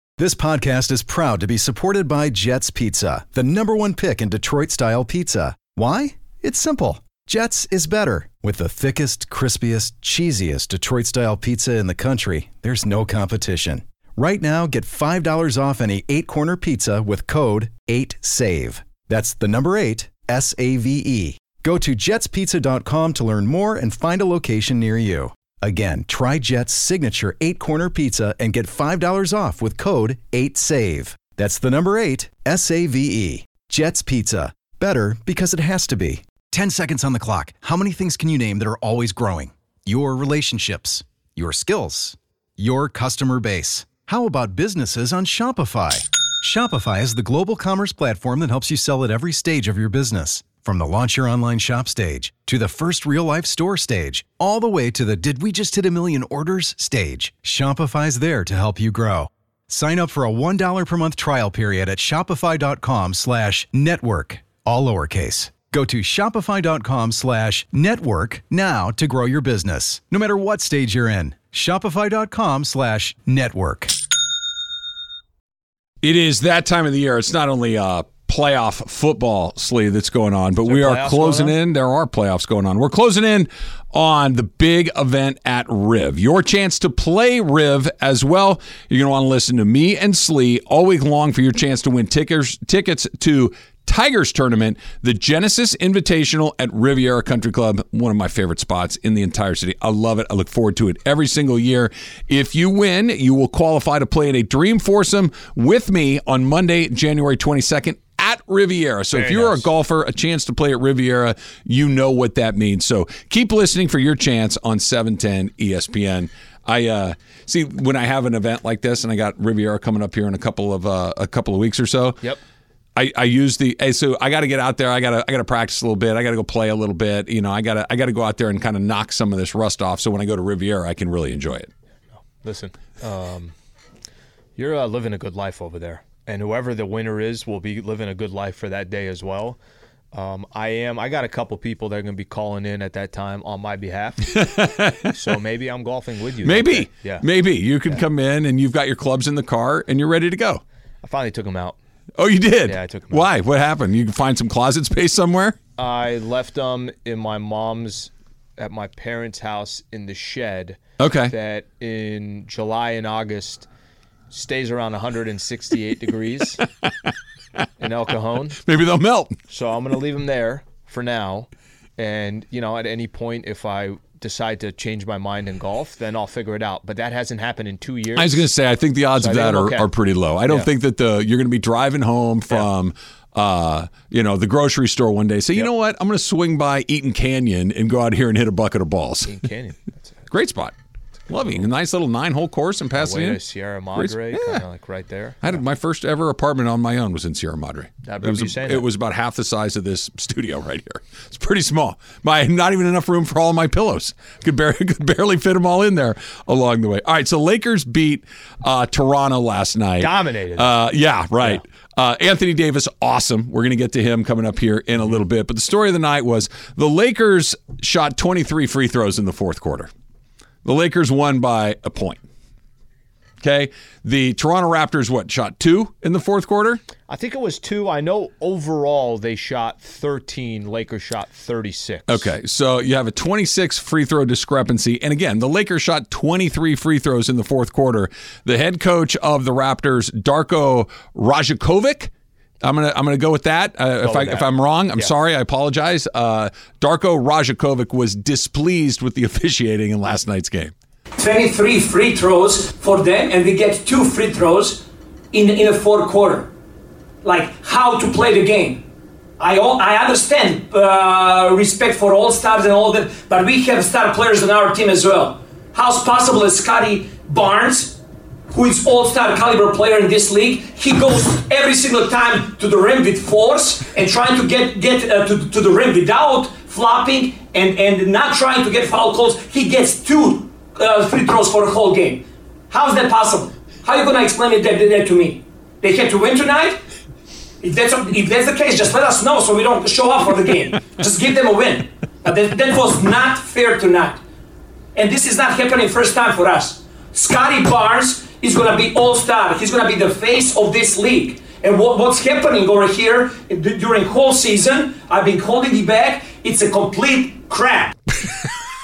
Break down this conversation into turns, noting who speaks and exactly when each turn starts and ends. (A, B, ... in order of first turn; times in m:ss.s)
0:00.2-1:14.0 A
1:16.0-2:02.2 B
1:20.7-1:21.6 C
1:49.1-1:49.7 C
2:03.0-2:11.7 B
2:12.4-2:13.5 C
2:14.6-2:19.6 C
2:20.1-2:24.4 C
2:24.3-2:25.1 B
2:25.1-2:27.2 C
2:26.4-2:30.6 B
2:31.0-2:31.8 C
2:32.2-2:35.6 B
2:32.7-2:33.3 C
2:35.8-2:43.7 C
2:41.0-2:41.3 B
2:44.3-2:46.6 C
2:47.8-2:48.6 C
2:48.6-2:49.4 B
2:49.5-2:58.5 C
2:58.2-3:09.4 B
2:59.2-2:59.9 C
3:09.3-3:10.1 C
3:10.3-3:10.8 B
3:11.3-3:13.4 B
3:13.0-3:15.6 C
3:13.9-3:14.6 B
3:15.4-3:39.9 B
3:18.0-3:18.9 C
3:30.0-3:30.8 C
3:40.6-3:42.2 B
3:43.4-3:46.8 B
3:47.1-3:52.3 C
3:52.1-4:02.1 B
4:02.6-4:10.7 B
4:04.0-4:05.1 C
4:11.2-4:16.5 D
4:17.2-4:18.8 D
4:19.4-4:28.0 D
4:28.5-4:46.8 D
4:47.6-4:54.2 D
4:55.0-5:07.9 D
5:08.2-5:08.6 B